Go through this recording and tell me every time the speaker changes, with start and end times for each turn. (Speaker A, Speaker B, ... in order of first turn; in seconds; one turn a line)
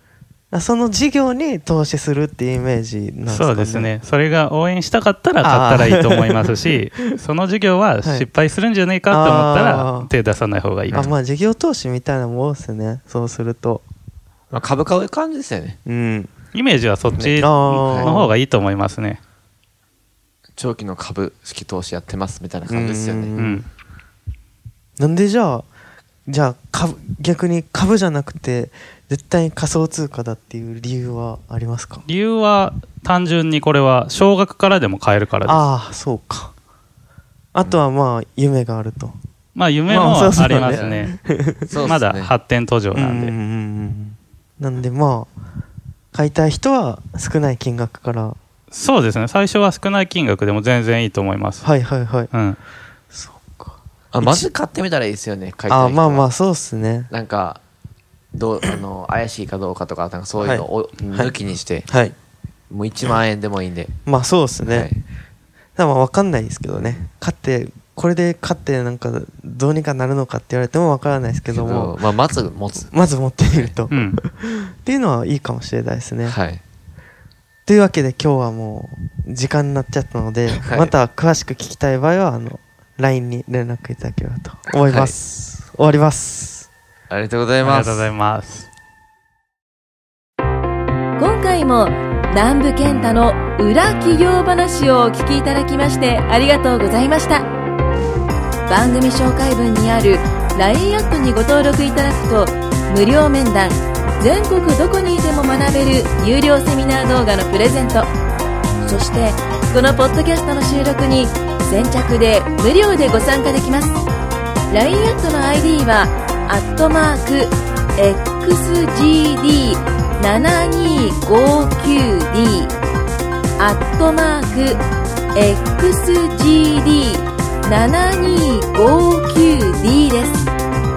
Speaker A: 0.5-3.9
Speaker B: 3.3-11.1
Speaker A: 5.4-7.2
Speaker A: 9.1-10.1
Speaker A: 10.9-13.8
Speaker C: 14.5-15.8
Speaker A: 15.8-16.3
Speaker B: 16.5-19.2
Speaker C: 17.2-18.1
Speaker A: 17.4-18.3
Speaker C: 20.6-23.4
Speaker A: 22.7-23.6
Speaker B: 23.4-23.7
Speaker A: 25.0-25.6
Speaker A: 26.3-32.0
Speaker B: 32.0-35.6
Speaker A: 35.5-36.5
Speaker A: 37.5-39.2
Speaker B: 39.5-41.2
Speaker A: 39.9-41.7
Speaker C: 40.4-41.1
Speaker C: 41.7-42.3
Speaker B: 41.8-43.4
Speaker A: 42.9-45.3
Speaker A: 46.1-48.4
Speaker B: 48.7-51.7
Speaker A: 51.6-52.3
Speaker B: 52.3-52.6
Speaker A: 53.1-54.5
Speaker C: 54.1-56.3
Speaker A: 55.7-57.1
Speaker C: 57.1-57.6
Speaker C: 58.3-61.9
Speaker A: 60.4-61.3
Speaker A: 61.9-62.1
Speaker C: 62.7-63.9
Speaker A: 64.1-64.9
Speaker C: 64.7-65.0
Speaker A: 65.8-72.0
Speaker C: 66.8-67.1
Speaker C: 71.5-72.9
Speaker A: 72.9-76.4
Speaker C: 73.5-73.8
Speaker B: 73.9-74.2
Speaker C: 76.2-76.6
Speaker A: 77.7-86.7
Speaker C: 80.5-80.9
Speaker C: 84.8-85.2
Speaker C: 87.1-88.1
Speaker B: 87.6-88.7
Speaker D: 91.2-97.5
Speaker D: 98.7-108.1
Speaker D: 108.8-114.0
Speaker D: 114.7-122.8
Speaker D: 123.6-124.8
Speaker D: 125.3-130.5